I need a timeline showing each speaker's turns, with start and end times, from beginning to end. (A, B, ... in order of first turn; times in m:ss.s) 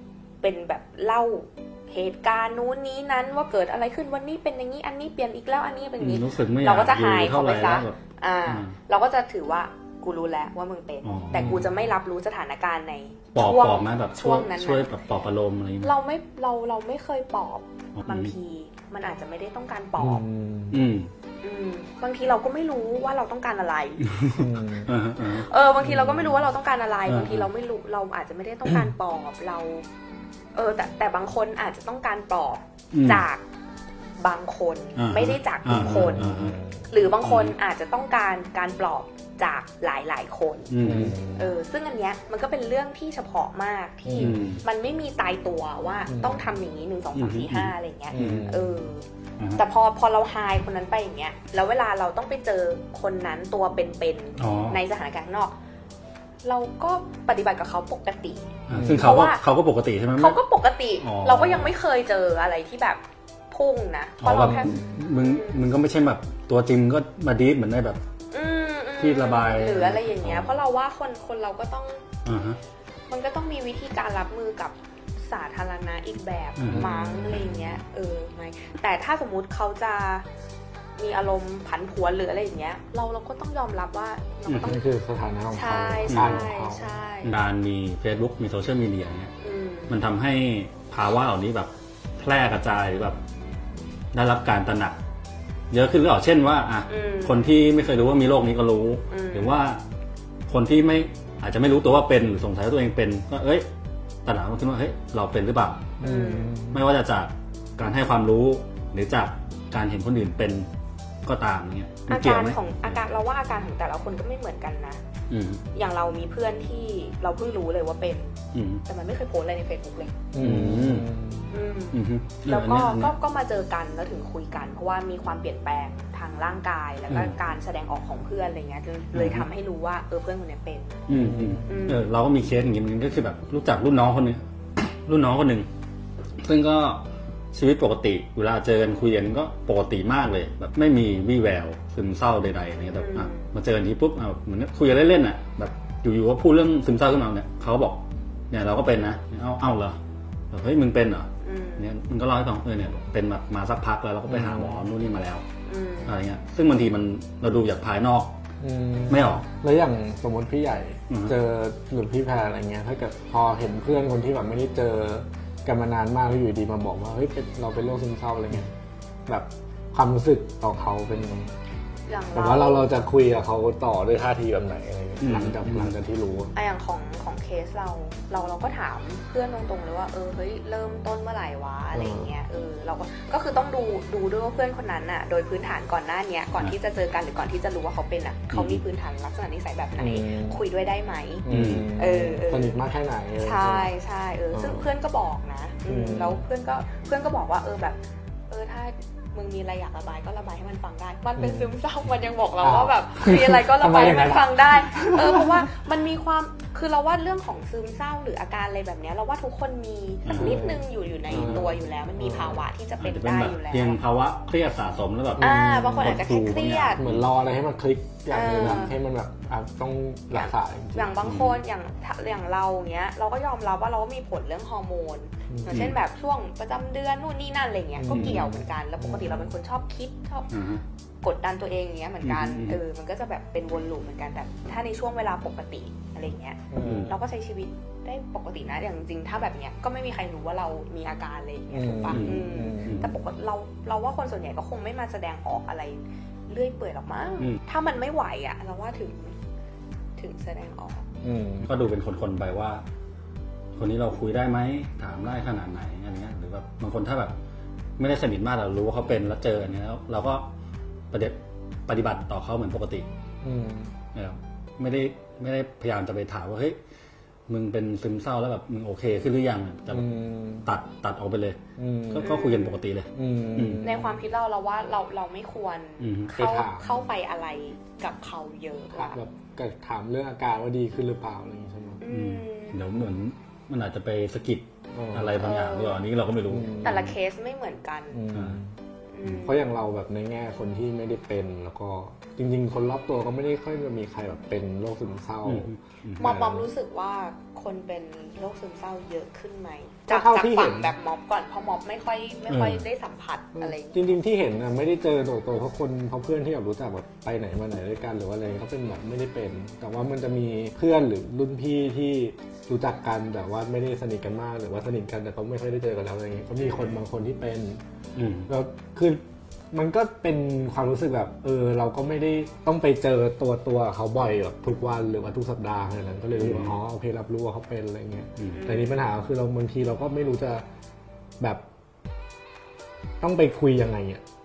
0:00.4-0:15.0 A
0:06.0-0:08.8 B
0:11.0-0:11.7 B
0:13.3-0:15.9 B
0:15.8-0:20.2 A
0:18.0-0:18.4 B
0:20.0-0:20.9 C
0:20.7-0:21.1 B
0:21.4-0:24.0 A
0:24.1-0:25.5 B
0:24.3-0:24.9 C
0:25.2-0:29.9 A
0:27.1-0:27.5 B
0:30.6-0:33.4 A
0:32.9-0:33.3 B
0:34.2-0:40.7 A
0:35.0-0:36.6 B
0:35.7-0:36.9 C
0:37.2-0:37.6 B
0:40.7-0:41.2 B
0:40.8-0:41.5 C
0:41.3-0:49.1 A
0:44.1-0:44.4 C
0:44.2-0:44.6 B
0:46.1-0:46.5 C
0:47.2-0:48.5 B
0:48.1-0:48.8 C
0:49.6-0:55.6 A
0:54.4-0:54.8 B
0:56.4-0:59.4 A
0:58.7-1:00.4 B
0:58.7-0:59.1 C
1:00.2-1:05.6 A
1:01.0-1:01.8 B
1:04.2-1:08.0 B
1:04.4-1:05.0 C
1:08.3-1:12.0 A
1:09.0-1:10.6 B
1:12.2-1:12.6 B
1:13.1-1:20.3 A
1:16.6-1:17.5 B
1:16.7-1:17.8 C
1:21.0-1:24.8 A
1:24.5-1:24.8 B
1:24.6-1:26.9 C
1:25.5-1:27.4 A
1:26.1-1:26.5 B
1:27.2-1:29.3 B
1:29.4-1:30.0 A
1:29.9-1:33.2 B
1:34.1-1:35.0 B
1:35.7-1:39.8 B
1:36.9-1:37.5 A
1:39.1-1:39.6 A
1:40.5-1:43.7 B
1:44.2-1:45.9 B
1:46.0-1:46.8 C
1:46.0-1:46.6 A
1:46.7-1:50.7 B
1:51.2-1:53.0 B
1:52.1-1:55.0 A
1:55.3-1:55.6 B
1:55.7-2:00.2 A
1:58.5-1:58.8 B
2:00.3-2:01.6 C
2:00.4-2:01.1 B
2:01.5-2:11.0 A
2:01.9-2:03.2 B
2:07.1-2:07.4 B
2:09.1-2:09.5 B
2:11.1-2:15.7 B
2:11.1-2:11.8 C
2:11.6-2:12.1 A
2:16.4-2:30.0 B
2:22.9-2:23.5 A
2:30.5-2:35.4 B
2:31.4-2:31.9 A
2:34.3-2:34.8 C
2:35.6-2:36.2 A
2:36.0-2:38.4 B
2:38.6-2:48.7 C
2:39.1-2:39.4 B
2:41.1-2:41.4 B
2:49.3-2:51.6 C
2:52.1-2:53.0 A
2:52.3-2:56.5 C
2:55.2-2:56.0 B
2:56.6-3:12.8 A
3:01.9-3:02.3 C
3:08.5-3:08.8 B
3:10.0-3:10.6 C
3:11.4-3:13.9 C
3:11.5-3:11.9 B
3:13.4-3:18.0 A
3:14.5-3:14.9 C
3:15.9-3:16.4 C
3:18.5-3:34.0 A
3:21.4-3:21.7 C
3:22.6-3:25.7 C
3:30.2-3:30.6 B
3:30.4-3:32.7 C
3:31.3-3:31.7 B
3:33.0-3:37.3 B
3:35.4-3:36.2 C
3:35.4-3:37.0 A
3:37.0-3:41.2 C
3:38.3-3:39.0 A
3:40.3-3:50.5 A
3:41.2-3:41.6 B
3:45.5-3:45.9 C
3:45.7-3:46.0 B
3:48.0-3:49.6 C
3:48.1-3:48.4 B
3:50.5-3:50.8 B
3:51.2-4:09.4 A
3:52.2-3:52.8 B
3:56.7-3:57.1 C
3:56.8-3:57.1 B
4:01.7-4:03.1 C
4:02.1-4:03.1 B
4:10.2-4:11.1 A
4:11.2-4:11.7 C
4:11.6-4:12.8 B
4:13.8-4:17.4 B
4:18.0-4:20.5 B
4:21.1-4:23.1 B
4:23.4-4:23.9 C
4:24.1-4:26.8 B
4:27.5-4:30.1 B
4:29.9-4:30.7 C
4:30.6-4:31.6 B
4:31.8-4:32.4 C
4:32.1-4:33.8 B
4:32.2-4:32.9 A
4:33.1-4:34.2 C
4:33.8-4:39.2 A
4:36.0-4:36.3 B
4:36.3-4:37.0 C
4:38.9-4:42.0 C
4:42.0-4:42.8 A
4:42.1-4:46.9 B
4:44.9-4:45.4 C
4:45.4-4:46.0 A
4:46.5-4:47.1 C
4:46.8-4:48.3 A
4:48.1-4:48.7 C
4:48.3-4:48.6 B
4:49.1-4:49.7 A
4:49.4-4:55.7 C
4:55.4-4:56.6 B
4:56.2-5:04.2 A
4:56.2-4:56.6 C
5:00.1-5:00.9 C
5:02.5-5:02.9 B
5:03.5-5:17.8 C
5:16.6-5:17.0 A
5:18.2-5:18.5 B
5:18.5-5:30.6 C
5:26.4-5:26.8 B
5:28.4-5:28.7 B
5:28.4-5:29.1 A
5:33.2-5:34.2 C